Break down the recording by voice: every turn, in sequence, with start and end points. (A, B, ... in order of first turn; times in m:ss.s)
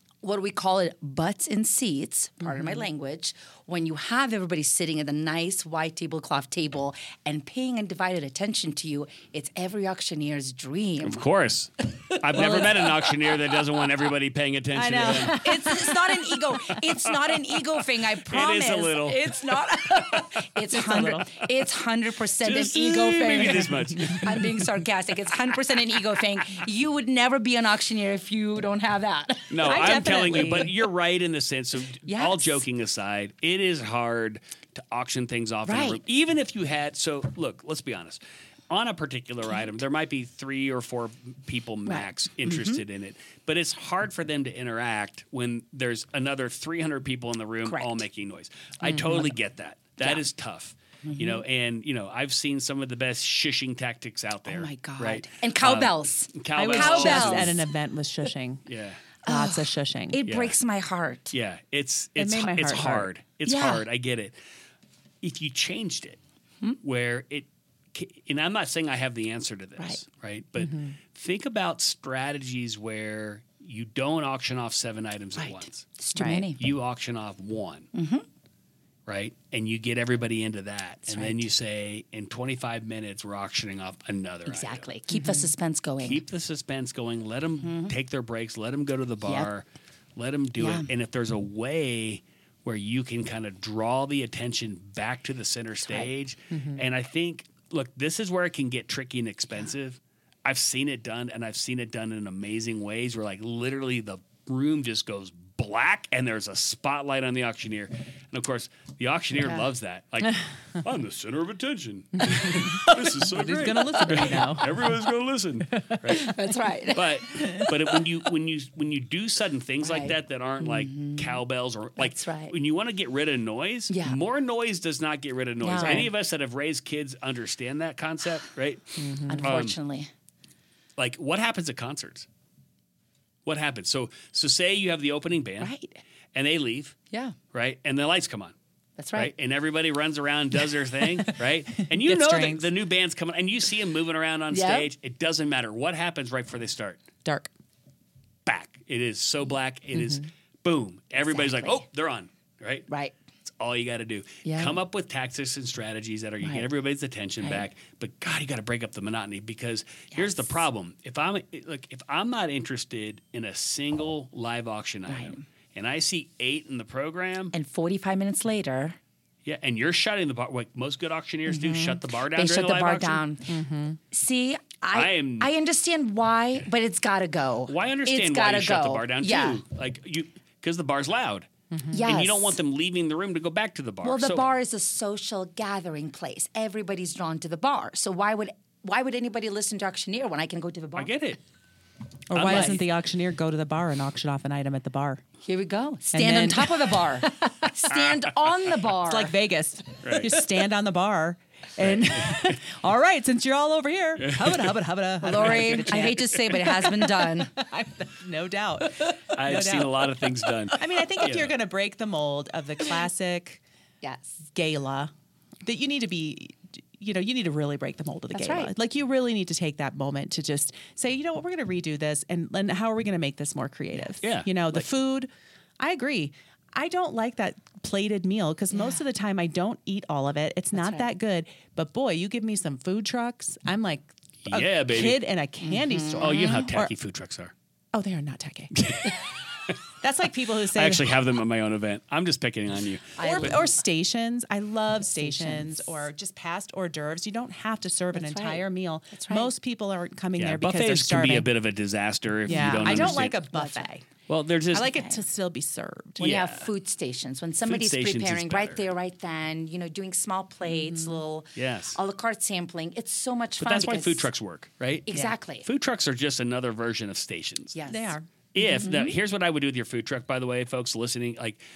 0:00.2-0:11.2 A
0:02.4-0:02.8 B
0:11.0-0:15.7 C
0:12.3-0:12.9 B
0:12.4-0:12.9 A
0:14.7-0:16.3 B
0:15.1-0:30.8 A
0:16.9-0:20.3 C
0:20.7-0:21.3 B
0:20.9-0:21.4 C
0:22.4-0:24.7 C
0:23.4-0:24.2 B
0:29.5-0:57.6 C
0:29.6-0:30.7 B
0:32.1-0:32.6 A
0:35.7-0:36.0 A
0:41.9-0:42.8 A
0:47.7-0:48.0 A
0:48.8-0:49.3 A
0:51.0-0:51.4 A
0:54.5-0:57.6 A
0:56.6-0:58.7 B
0:58.7-0:59.0 C
0:59.2-1:00.2 B
0:59.2-1:01.4 A
1:00.3-1:00.6 C
1:01.3-1:04.4 C
1:02.2-1:03.1 B
1:03.5-1:03.8 A
1:05.2-1:06.2 C
1:06.8-1:15.9 C
1:10.6-1:11.0 B
1:15.4-1:16.6 A
1:16.2-1:16.5 B
1:16.6-1:17.9 C
1:18.0-1:18.2 A
1:19.1-1:24.9 C
1:21.1-1:21.5 A
1:24.5-1:26.2 A
1:25.1-1:25.5 B
1:26.0-1:56.4 C
1:27.6-1:27.9 A
1:30.6-1:30.9 A
1:36.5-1:36.8 B
1:52.2-1:54.9 B
1:55.7-1:56.5 B
1:56.1-1:58.0 A
1:56.9-2:09.8 C
1:59.8-2:01.4 A
2:02.0-2:02.6 A
2:03.9-2:04.2 A
2:05.6-2:06.1 A
2:05.8-2:06.1 B
2:09.0-2:09.6 B
2:09.3-2:10.1 A
2:11.0-2:12.3 C
2:13.4-2:15.7 C
2:15.6-2:16.0 A
2:16.3-2:17.0 C
2:17.1-2:17.4 A
2:17.5-2:18.6 C
2:19.0-2:19.3 A
2:19.2-2:27.0 C
2:21.7-2:22.7 B
2:24.5-2:24.9 A
2:27.2-2:27.5 B
2:28.5-2:32.9 C
2:30.0-2:30.3 B
2:31.2-2:31.8 A
2:32.9-2:33.2 A
2:33.4-2:47.5 C
2:34.4-2:34.8 A
2:36.4-2:36.7 A
2:37.4-2:37.7 A
2:40.1-2:40.6 A
2:45.1-2:45.4 A
2:47.5-2:49.0 A
2:49.4-2:53.2 C
2:51.5-2:59.6 A
2:53.5-2:54.0 B
2:54.9-2:55.5 C
2:57.7-3:04.5 C
3:01.7-3:02.0 B
3:01.9-3:02.6 A
3:04.0-3:11.1 A
3:11.0-3:11.4 C
3:12.3-3:15.2 B
3:12.3-3:12.8 C
3:12.4-3:12.8 A
3:15.4-3:19.3 A
3:16.1-3:18.0 B
3:19.1-3:33.6 B
3:20.0-3:20.4 C
3:21.8-3:22.6 C
3:24.2-3:24.8 C
3:25.2-3:27.5 A
3:25.4-3:25.9 C
3:29.3-3:31.6 C
3:34.0-3:34.4 A
3:34.5-3:35.1 B
3:35.6-3:56.9 B
3:38.3-3:38.7 A
3:44.2-3:44.8 C
3:48.7-3:49.0 A
3:50.8-3:51.1 A
3:54.4-3:55.2 C
3:55.6-3:56.7 A
3:56.2-3:57.5 C
3:57.9-3:58.9 B
3:58.7-3:59.8 C
4:00.0-4:01.1 B
4:00.7-4:03.6 C
4:03.2-4:03.8 A
4:03.2-4:11.5 B
4:05.2-4:05.9 A
4:08.1-4:09.5 A
4:10.4-4:13.3 C
4:12.5-4:14.1 B
4:12.5-4:13.9 A
4:14.3-4:14.9 C
4:14.7-4:16.2 B
4:14.9-4:15.2 A
4:16.2-4:16.7 C
4:16.2-4:24.3 A
4:17.6-4:18.8 C
4:20.7-4:21.2 B
4:21.6-4:22.0 C
4:23.6-4:25.1 C
4:25.1-4:25.7 A
4:25.6-4:27.8 C
4:27.7-4:28.2 A
4:27.9-4:28.9 B
4:28.5-4:31.6 C
4:28.8-4:29.1 A